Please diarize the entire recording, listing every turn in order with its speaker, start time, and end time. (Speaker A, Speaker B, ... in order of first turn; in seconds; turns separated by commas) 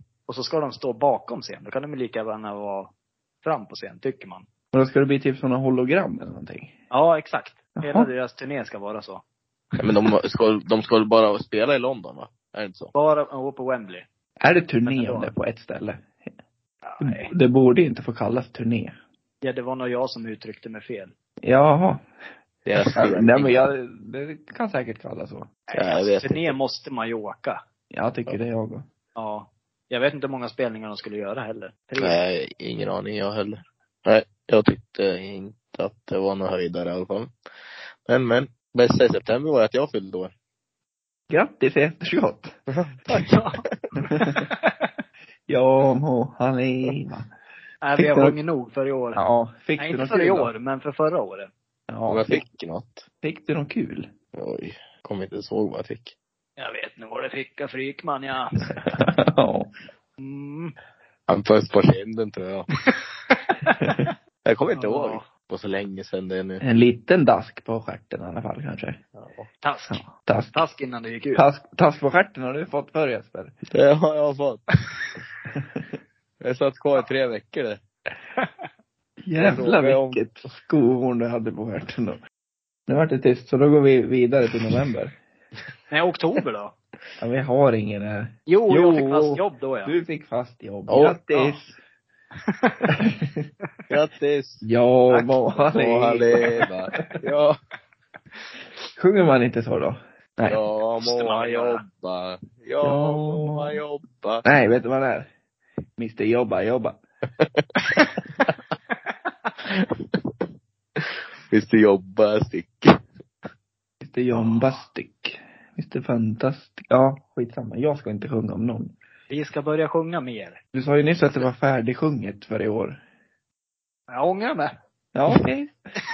Speaker A: 0.3-4.5, Speaker B: 4.7-6.7, Speaker A: 6.9-9.2, Speaker B: 7.8-8.1, Speaker C: 9.8-12.9, Speaker A: 12.9-14.1, Speaker B: 14.4-16.1, Speaker A: 14.8-15.3, Speaker A: 16.8-17.3, Speaker B: 17.0-18.9, Speaker A: 19.4-21.1, Speaker B: 21.4-22.0, Speaker C: 22.6-23.7, Speaker B: 22.9-25.5, Speaker A: 25.7-27.6, Speaker C: 25.7-26.5, Speaker B: 27.9-28.8, Speaker A: 29.1-32.2, Speaker C: 32.0-37.3, Speaker C: 38.0-40.3, Speaker B: 41.3-42.5, Speaker C: 42.7-43.0, Speaker A: 43.1-43.6, Speaker B: 44.1-44.4, Speaker A: 44.5-44.9, Speaker B: 45.5-47.3, Speaker A: 47.8-49.2, Speaker B: 47.9-48.4, Speaker B: 49.1-50.5, Speaker A: 49.8-51.5, Speaker B: 51.9-52.4, Speaker C: 52.1-53.1, Speaker B: 53.2-54.1, Speaker C: 54.3-56.1, Speaker A: 56.6-58.7, Speaker B: 58.9-59.7, Speaker A: 60.2-60.7, Speaker C: 61.3-62.7, Speaker A: 63.3-64.0, Speaker C: 64.4-66.6, Speaker A: 64.8-65.2, Speaker B: 66.6-69.0, Speaker C: 69.2-69.5, Speaker A: 69.6-71.4, Speaker B: 69.9-70.5, Speaker B: 71.3-73.5, Speaker C: 73.7-74.7, Speaker B: 75.5-75.8, Speaker C: 76.4-77.8, Speaker B: 79.2-82.2, Speaker C: 79.4-80.2, Speaker B: 82.9-85.2, Speaker A: 85.9-86.8, Speaker B: 87.2-91.8, Speaker A: 88.5-90.0, Speaker C: 90.9-91.2, Speaker A: 91.3-91.6, Speaker A: 92.5-92.9, Speaker B: 92.9-93.4, Speaker C: 93.9-94.7, Speaker B: 94.6-97.0, Speaker A: 95.1-95.3, Speaker C: 95.7-97.5, Speaker A: 96.4-97.1, Speaker B: 99.0-100.6, Speaker C: 100.5-104.4, Speaker A: 101.0-101.8, Speaker B: 102.8-103.8, Speaker B: 104.4-105.3, Speaker B: 106.0-107.0, Speaker C: 111.0-113.0, Speaker B: 114.0-118.9, Speaker A: 119.3-120.6, Speaker B: 120.7-123.0, Speaker A: 124.1-124.7, Speaker B: 125.1-125.7